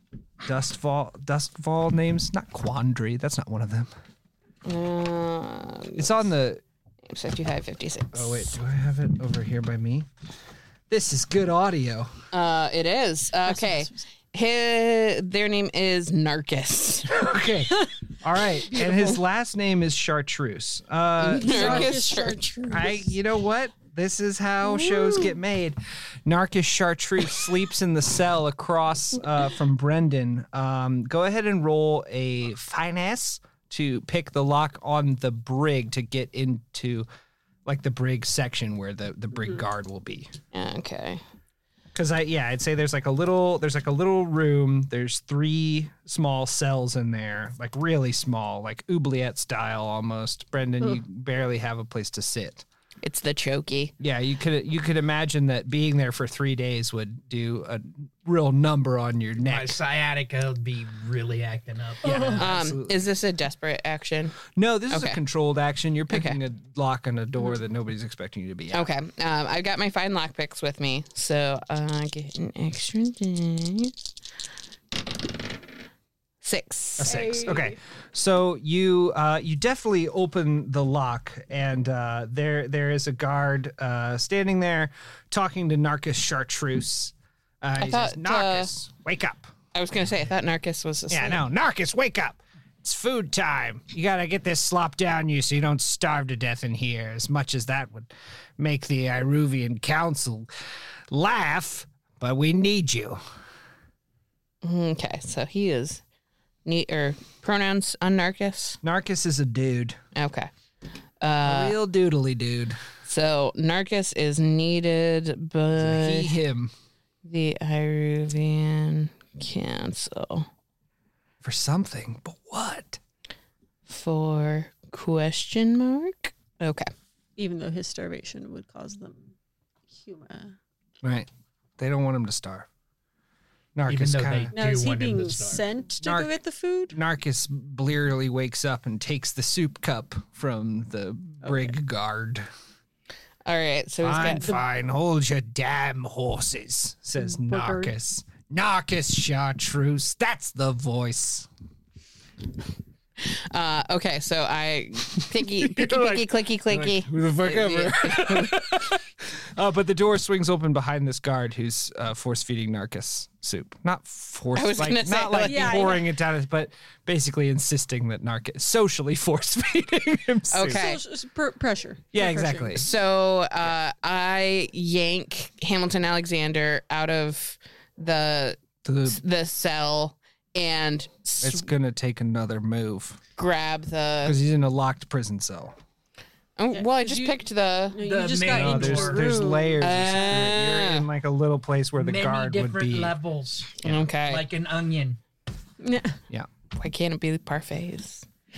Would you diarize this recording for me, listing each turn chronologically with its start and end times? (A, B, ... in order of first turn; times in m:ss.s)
0:00.4-0:03.9 A
0:04.6-0:06.2 B
0:06.0-0:06.6 A
0:07.1-0:08.5 B
0:08.1-0:10.1 A
0:10.9-0:12.1 A
0:12.3-0:17.1 B
0:13.4-0:14.0 C
0:17.1-0:22.0 A
0:18.7-0:19.2 C
0:21.2-0:22.4 B
0:21.4-0:23.2 C
0:22.7-0:37.1 A
0:24.7-0:25.3 C
0:37.7-0:40.3 A
0:40.5-0:41.2 B
0:42.0-0:52.6 A
0:53.0-0:53.9 B
0:54.0-0:59.8 A
0:59.4-1:02.4 D
1:02.0-1:03.0 A
1:02.4-1:05.2 B
1:04.6-1:08.9 A
1:06.1-1:06.4 B
1:08.7-1:14.0 B
1:16.4-1:17.2 B
1:17.0-1:29.5 A
1:17.0-1:17.8 C
1:27.8-1:28.7 B
1:29.7-1:31.4 B
1:31.1-1:40.5 A
1:41.1-1:43.2 A
1:44.6-1:46.0 B
1:46.6-1:48.8 B
1:48.8-1:50.0 A
1:50.2-1:50.5 B
1:51.2-1:51.8 B
1:51.4-1:52.8 A
1:53.0-1:56.3 B
1:55.8-1:56.7 A
1:57.2-2:00.5 B
2:01.4-2:03.0 A
2:03.9-2:06.9 B
2:07.4-2:09.3 C
2:09.9-2:10.6 C
2:11.0-2:12.7 A
2:13.8-2:14.5 A
2:13.9-2:15.6 D
2:14.5-2:17.0 C
2:16.0-2:16.3 A
2:16.9-2:22.5 A
2:21.4-2:21.7 C
2:23.4-2:24.6 B
2:24.0-2:31.5 A
2:27.2-2:27.9 C
2:33.2-2:38.6 B
2:35.4-2:50.9 A
2:44.6-2:46.0 B
2:45.4-2:46.1 C
2:50.5-2:51.0 B
2:50.7-2:52.9 C
2:52.1-2:52.9 A
2:52.8-3:01.7 B
2:58.8-2:59.2 A
3:01.4-3:03.2 A
3:03.4-3:04.4 B
3:04.2-3:05.8 A
3:06.6-3:08.0 B
3:06.7-3:07.4 C
3:07.9-3:10.4 C
3:08.0-3:09.3 D
3:08.5-3:13.2 A
3:09.8-3:11.1 B
3:12.0-3:15.2 D
3:13.8-3:14.5 B
3:15.8-3:16.2 C
3:16.7-3:18.3 B